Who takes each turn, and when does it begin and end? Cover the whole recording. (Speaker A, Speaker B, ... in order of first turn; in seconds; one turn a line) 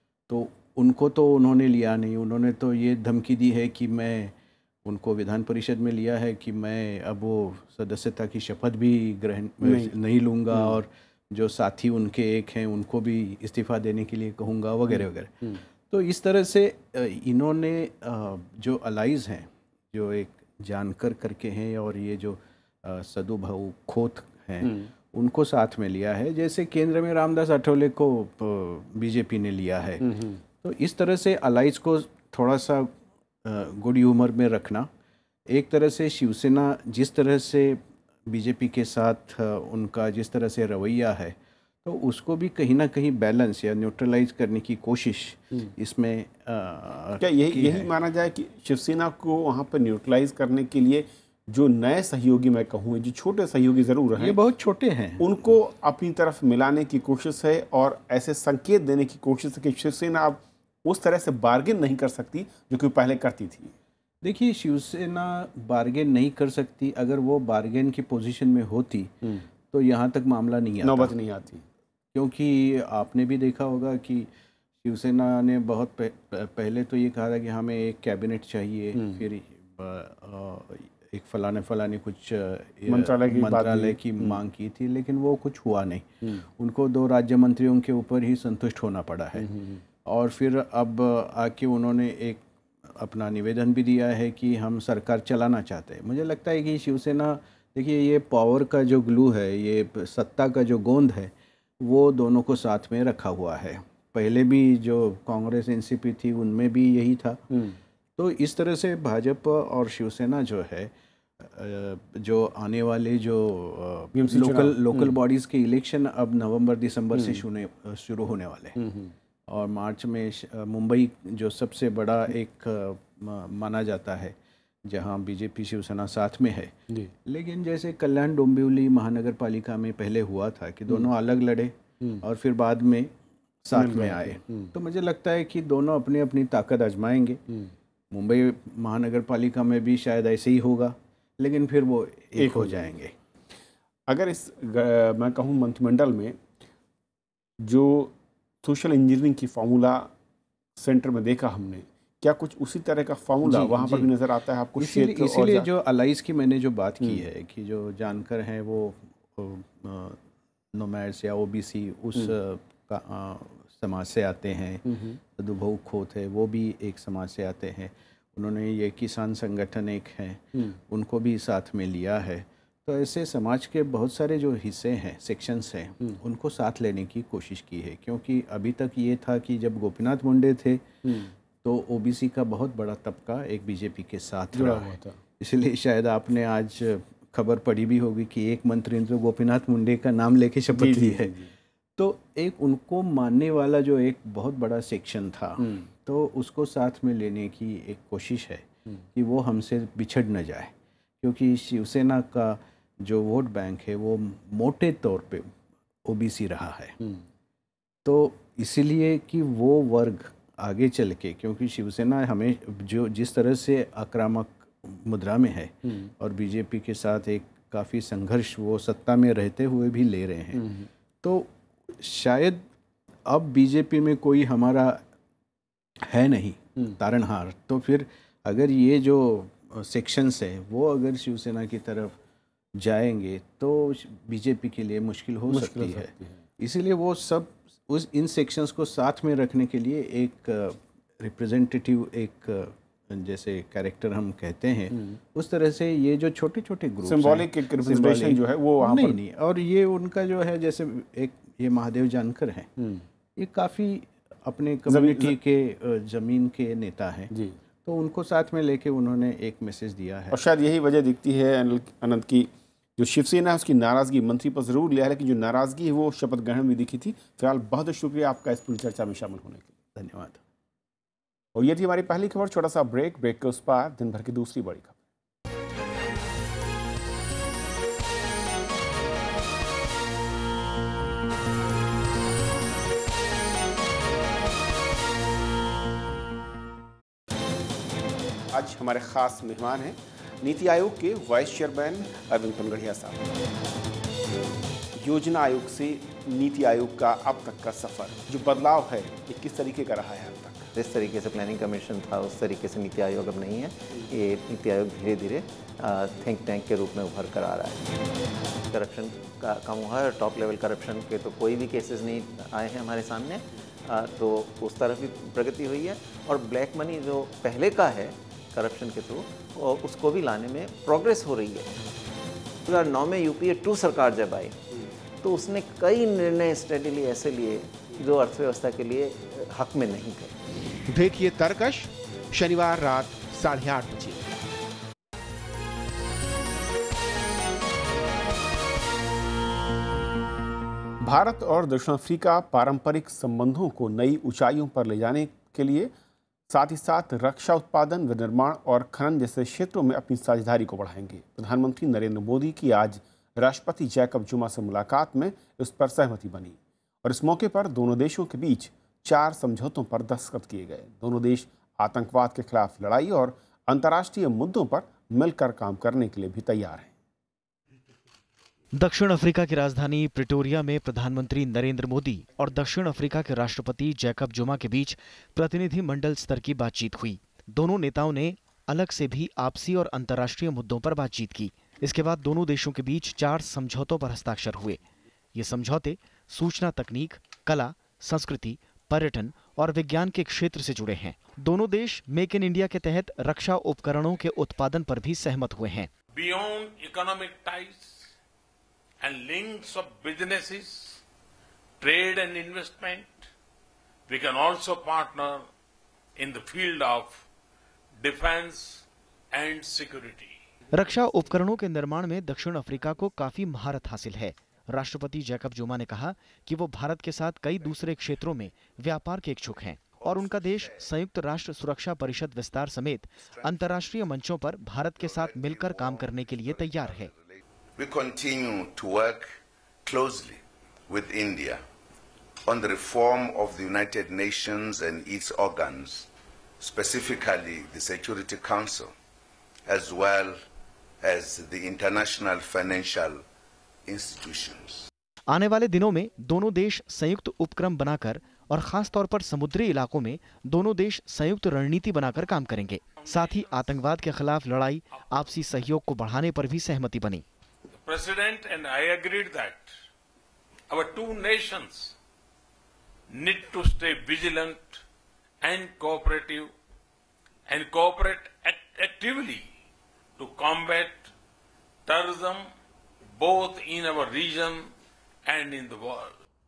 Speaker A: 0.3-15.3
Speaker B: 9.6-9.9
Speaker B: 10.5-10.8
Speaker B: 14.9-15.6
Speaker A: 15.9-30.1
Speaker B: 24.6-24.9
Speaker B: 30.0-30.4
Speaker A: 30.6-32.9
Speaker A: 33.4-34.9
Speaker A: 35.5-47.9
Speaker B: 47.2-54.4
Speaker A: 54.2-55.3
Speaker B: 55.2-63.7
Speaker A: 64.2-69.1
Speaker A: 69.7-71.1
Speaker B: 70.8-71.6
Speaker A: 72.1-74.3
Speaker A: 74.8-86.1
Speaker B: 78.9-79.2
Speaker B: 82.9-84.4
Speaker A: 86.6-89.5
Speaker B: 89.4-89.8
Speaker A: 90.0-107.4
Speaker B: 107.5-107.8
Speaker A: 108.2-118.8
Speaker B: 114.1-115.1
Speaker B: 117.1-117.4
Speaker B: 118.8-119.1
Speaker A: 119.5-133.1
Speaker A: 133.6-137.4
Speaker B: 133.7-134.7
Speaker A: 138.1-143.1
Speaker B: 142.3-142.9
Speaker B: 144.1-146.4
Speaker B: 147.6-150.1
Speaker B: 150.8-155.7
Speaker A: 153.4-154.1
Speaker A: 154.8-160.2
Speaker A: 160.7-180.8
Speaker B: 164.8-165.2
Speaker B: 181.0-181.3
Speaker A: 181.6-191.4
Speaker B: 184.5-185.2
Speaker B: 190.7-191.5
Speaker A: 192.0-205.5
Speaker B: 195.6-195.9
Speaker A: 206.0-206.9
Speaker A: 208.0-220.6
Speaker B: 220.5-220.9
Speaker A: 221.2-222.6
Speaker A: 223.2-225.0
Speaker A: 226.1-232.1
Speaker A: 232.8-252.7
Speaker B: 235.5-236.3
Speaker B: 244.9-245.2
Speaker B: 247.0-249.2
Speaker B: 252.8-253.0
Speaker A: 253.3-257.3
Speaker B: 254.9-255.4
Speaker A: 257.8-260.4
Speaker B: 260.3-269.7
Speaker A: 269.9-270.4
Speaker B: 271.5-275.0
Speaker B: 288.5-293.2
Speaker B: 294.9-300.7
Speaker C: 300.8-307.8
Speaker C: 308.7-321.7
Speaker C: 322.7-324.6
Speaker C: 325.2-330.3
Speaker B: 330.9-334.2
Speaker B: 341.0-345.9
Speaker B: 346.5-366.9
Speaker D: 368.8-384.8
Speaker D: 385.3-395.9
Speaker E: 396.1-398.1
Speaker E: 399.0-401.0
Speaker E: 401.8-403.3
Speaker E: 404.1-405.5
Speaker E: 406.2-407.2
Speaker E: 408.0-410.4
Speaker D: 410.7-427.1
Speaker F: 427.8-429.3
Speaker F: 429.8-431.6
Speaker F: 432.5-436.1
Speaker F: 436.6-438.9
Speaker F: 439.7-440.4
Speaker F: 441.0-443.2
Speaker F: 443.9-444.9
Speaker D: 445.3-457.2
Speaker E: 453.1-453.5
Speaker E: 457.8-459.7
Speaker E: 460.7-461.9
Speaker E: 463.1-464.8
Speaker E: 465.4-466.5
Speaker E: 467.5-469.5
Speaker E: 470.2-471.1
Speaker E: 471.9-472.5
Speaker E: 473.2-474.7
Speaker E: 475.2-476.2